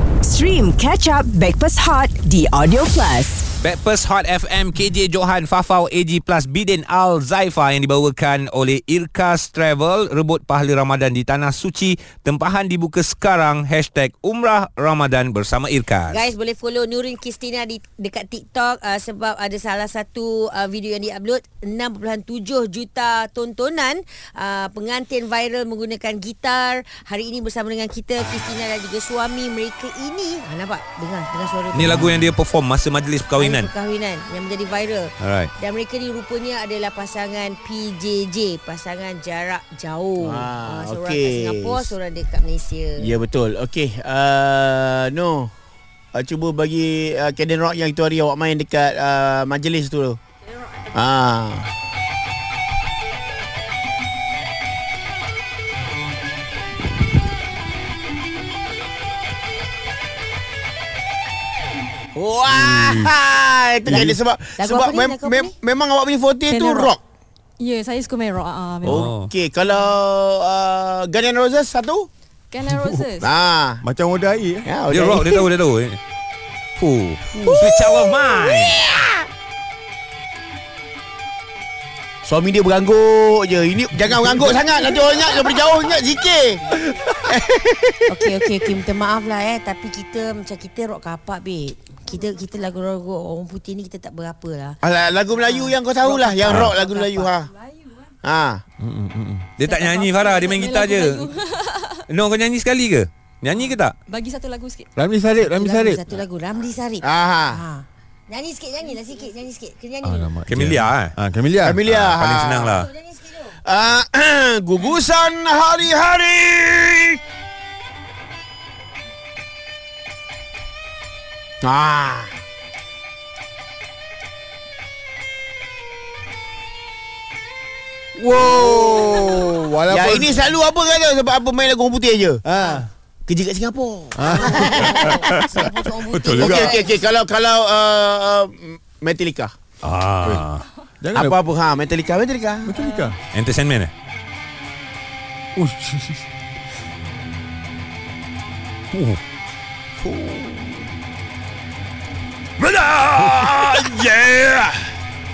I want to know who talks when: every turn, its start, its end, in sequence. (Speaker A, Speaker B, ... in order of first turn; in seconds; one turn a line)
Speaker A: 0.2-3.5
Speaker B: 3.6-16.2
Speaker C: 16.1-32.0
Speaker B: 31.7-33.7
Speaker D: 32.0-32.2
Speaker C: 33.4-43.0
Speaker B: 35.2-35.5
Speaker E: 40.2-41.9
Speaker E: 43.0-45.5
Speaker E: 46.1-50.2
Speaker E: 50.9-51.7
Speaker E: 62.1-67.0
Speaker D: 63.9-64.2
Speaker C: 64.6-65.5
Speaker F: 66.5-66.9
Speaker F: 67.6-69.1
Speaker E: 68.8-72.1
Speaker B: 68.9-69.3
Speaker F: 72.5-73.3
Speaker D: 72.7-73.0
Speaker E: 73.2-73.8
Speaker D: 73.8-74.7
Speaker E: 74.7-75.5
Speaker B: 74.9-76.0
Speaker B: 76.8-78.8
Speaker E: 77.3-79.3
Speaker E: 82.2-88.3
Speaker C: 88.1-94.8
Speaker E: 94.8-97.5
Speaker C: 95.4-97.3
Speaker E: 98.2-98.6
Speaker D: 98.8-99.5
Speaker B: 99.6-101.3
Speaker F: 99.7-102.0
Speaker B: 102.1-104.0
Speaker F: 104.1-104.9
Speaker D: 105.0-106.0
Speaker C: 105.5-110.3
Speaker E: 107.0-107.6
Speaker D: 110.0-111.8
Speaker B: 110.5-111.1
Speaker E: 111.6-112.8
Speaker B: 111.8-112.9
Speaker C: 112.7-113.5
Speaker E: 113.7-117.2
Speaker E: 121.6-122.3
Speaker D: 128.2-130.4
Speaker E: 128.4-129.1
Speaker E: 129.9-132.4
Speaker D: 132.4-132.9
Speaker E: 133.3-135.5
Speaker D: 134.1-135.3
Speaker C: 134.3-137.0
Speaker B: 136.1-136.7
Speaker E: 136.3-139.6
Speaker B: 139.8-140.6
Speaker D: 141.0-141.4
Speaker E: 141.1-142.7
Speaker D: 142.7-143.2
Speaker B: 143.3-143.9
Speaker D: 145.6-146.2
Speaker B: 148.9-149.2
Speaker E: 150.0-150.7
Speaker B: 152.6-154.7
Speaker D: 153.2-153.7